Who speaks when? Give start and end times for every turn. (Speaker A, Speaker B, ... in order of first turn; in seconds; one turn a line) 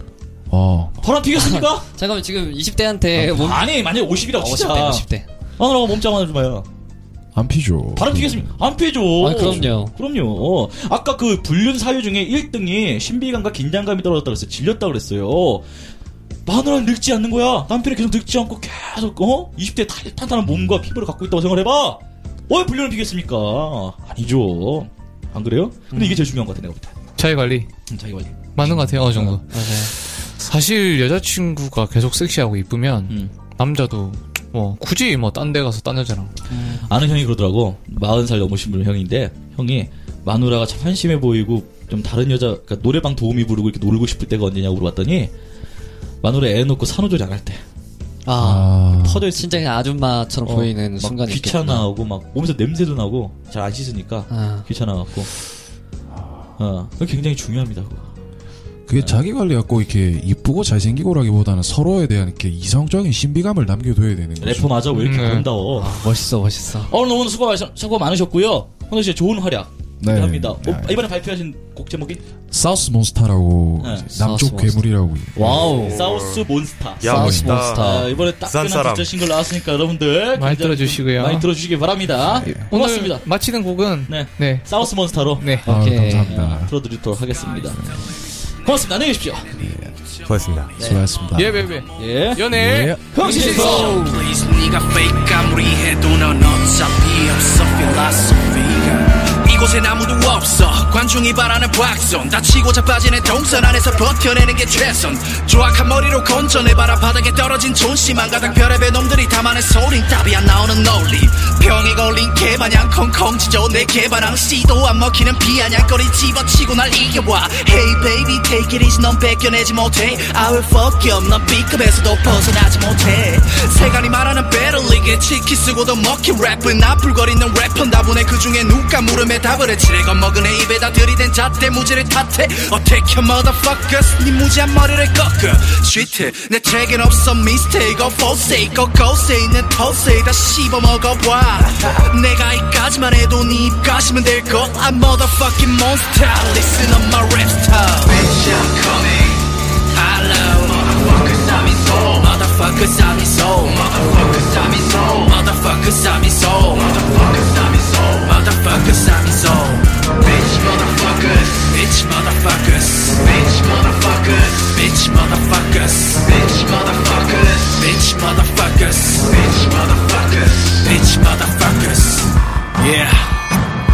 Speaker A: 0.5-0.9
Speaker B: 1.0-1.9
Speaker C: 1.3-3.8
Speaker B: 3.1-5.0
Speaker C: 4.3-5.2
Speaker B: 5.6-6.7
Speaker A: 7.3-8.5
Speaker B: 7.9-15.6
Speaker C: 9.2-9.9
Speaker A: 9.3-9.7
Speaker B: 16.4-26.9
Speaker C: 25.9-26.2
Speaker D: 27.2-27.7
Speaker B: 27.9-29.4
Speaker D: 28.5-36.4
Speaker C: 29.5-29.9
Speaker B: 36.5-45.3
Speaker B: 46.2-47.6
Speaker C: 48.2-51.9
Speaker A: 48.4-49.2
Speaker B: 49.0-49.7
Speaker B: 50.4-55.3
Speaker C: 54.3-54.6
Speaker B: 56.6-58.0
Speaker A: 58.9-64.9
Speaker B: 64.4-66.0
Speaker D: 64.9-65.5
Speaker C: 65.8-66.9
Speaker B: 66.9-72.2
Speaker A: 70.0-71.0
Speaker A: 72.5-75.8
Speaker B: 73.8-74.1
Speaker C: 74.1-76.0
Speaker B: 75.4-83.2
Speaker E: 75.6-76.5
Speaker E: 77.0-79.1
Speaker C: 77.0-78.1
Speaker A: 77.1-77.6
Speaker D: 80.3-81.5
Speaker A: 82.3-82.7
Speaker D: 82.7-85.7
Speaker B: 84.1-85.5
Speaker C: 85.6-86.4
Speaker A: 85.7-86.7
Speaker B: 86.2-88.0
Speaker B: 88.6-89.5
Speaker A: 89.5-90.0
Speaker E: 90.3-90.8
Speaker A: 90.8-91.7
Speaker B: 90.8-91.0
Speaker D: 91.3-94.2
Speaker B: 92.0-92.5
Speaker A: 92.5-93.0
Speaker B: 93.1-94.0
Speaker F: 93.4-173.4